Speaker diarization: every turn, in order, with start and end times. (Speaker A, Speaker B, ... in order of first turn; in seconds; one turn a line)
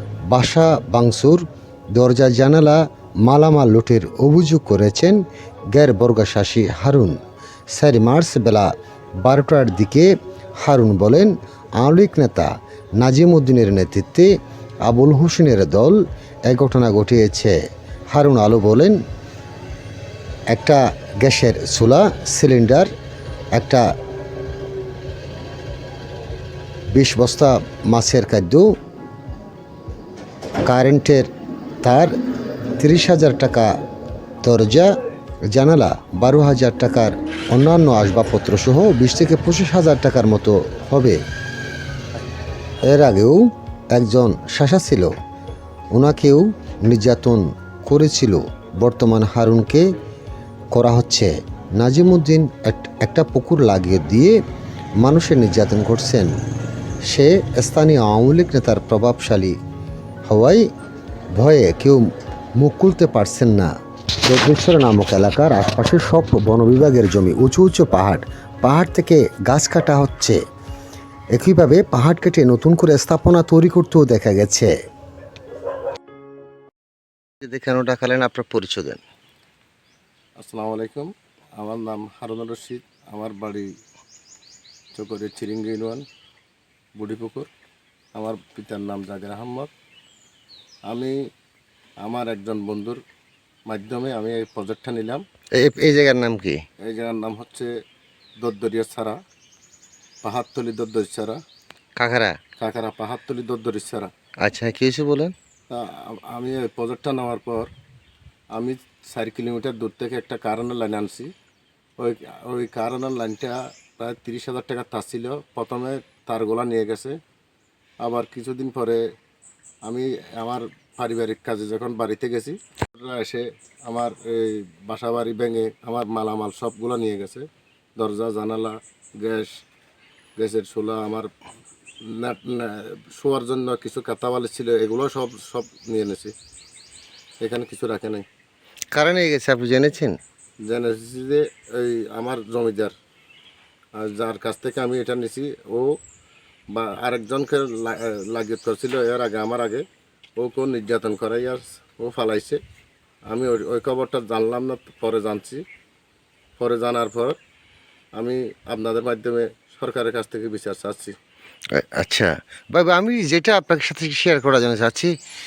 Speaker A: 0.3-7.2
Speaker A: 7.7-8.7
Speaker A: 9.2-14.3
Speaker A: 14.8-16.0
Speaker A: 16.5-17.6
Speaker A: 18.1-19.0
Speaker A: 20.5-22.9
Speaker A: 23.5-23.9
Speaker A: 26.9-28.6
Speaker A: 30.6-31.3
Speaker A: 31.8-32.1
Speaker A: 32.8-33.7
Speaker A: 34.4-35.0
Speaker A: 35.5-41.2
Speaker A: 42.9-45.1
Speaker A: 45.9-49.9
Speaker A: 50.7-54.4
Speaker A: 55.0-56.4
Speaker A: 57.1-59.6
Speaker A: 60.3-60.6
Speaker A: 61.3-62.0
Speaker A: 62.6-63.7
Speaker A: 64.2-70.4
Speaker A: 71.3-74.7
Speaker A: 77.4-79.0
Speaker B: 80.4-83.7
Speaker B: 84.9-86.0
Speaker B: 87.0-87.5
Speaker B: 88.2-89.7
Speaker B: 90.9-91.3
Speaker B: 92.0-93.0
Speaker B: 93.7-95.2
Speaker A: 95.6-96.6
Speaker B: 96.8-97.7
Speaker B: 98.4-99.2
Speaker B: 100.2-101.4
Speaker A: 102.0-102.4
Speaker B: 102.6-104.1
Speaker A: 104.4-105.3
Speaker B: 105.7-107.7
Speaker B: 108.5-111.3
Speaker B: 112.0-117.2
Speaker B: 118.0-119.0
Speaker B: 119.8-129.6
Speaker B: 130.4-131.3
Speaker B: 132.0-136.3
Speaker B: 137.4-138.2
Speaker A: 138.9-140.2
Speaker B: 140.6-142.9
Speaker B: 144.0-145.9
Speaker B: 146.7-149.8
Speaker B: 150.4-152.6
Speaker B: 153.3-155.6
Speaker B: 156.6-157.4
Speaker B: 158.2-161.1
Speaker A: 161.7-165.1